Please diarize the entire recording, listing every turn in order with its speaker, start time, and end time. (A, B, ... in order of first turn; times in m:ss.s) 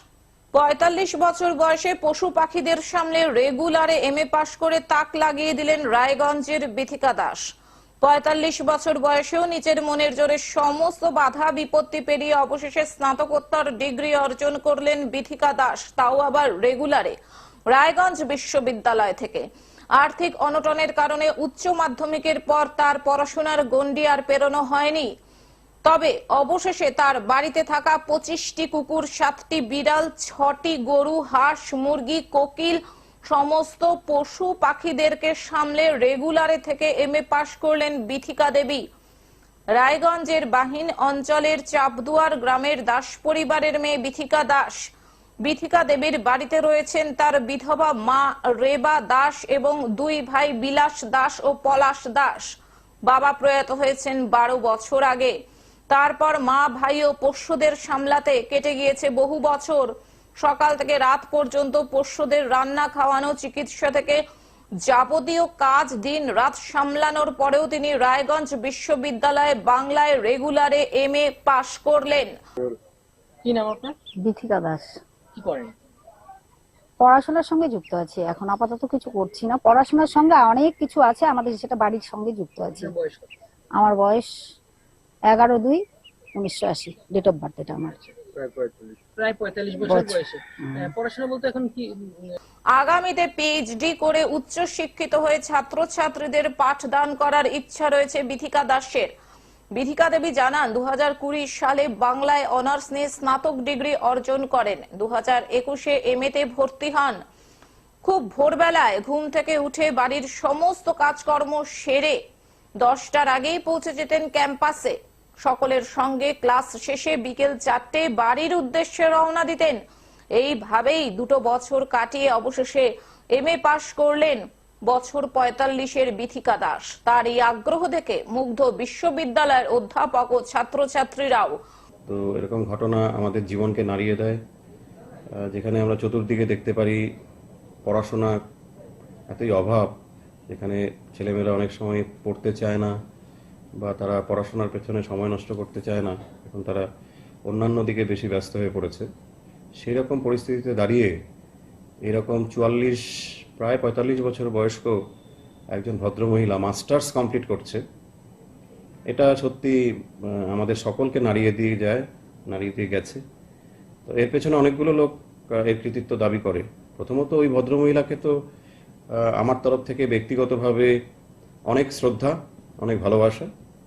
0:00.5-0:07.4 A
0:08.0-0:17.1 A
0:17.7-0:25.1 A
0:25.8-0:38.8 A
0:39.8-0:44.7 A
0:45.4-0:52.4 A
0:53.1-0:55.3 A
0:55.9-0:59.9 A
1:00.4-1:04.2 A
1:04.8-1:12.3 A
1:13.4-1:14.0 B
1:14.2-1:14.9 C
1:15.3-1:15.7 B
1:17.0-1:22.9 C
1:22.8-1:23.3 B
1:23.8-1:24.3 C
1:25.3-1:25.8 C
1:26.4-1:27.9 C
1:27.9-1:32.2 B
1:29.8-1:30.9 C
1:32.7-1:39.1 A
1:39.7-1:47.2 A
1:48.0-1:52.2 A
1:52.8-1:59.8 A
2:00.3-2:11.6 A
2:12.1-2:14.4 D
2:15.4-2:17.0 D
2:17.8-2:18.4 D
2:19.3-2:19.9 D
2:20.5-2:22.9 D
2:23.8-2:26.8 D
2:27.5-2:29.1 D
2:29.8-2:31.1 D
2:32.0-2:33.0 D
2:33.6-2:34.9 D
2:35.7-2:37.8 D
2:39.1-2:39.8 D
2:40.3-2:43.2 D
2:44.1-2:48.3 D
2:49.4-2:50.9 D
2:51.7-2:53.5 D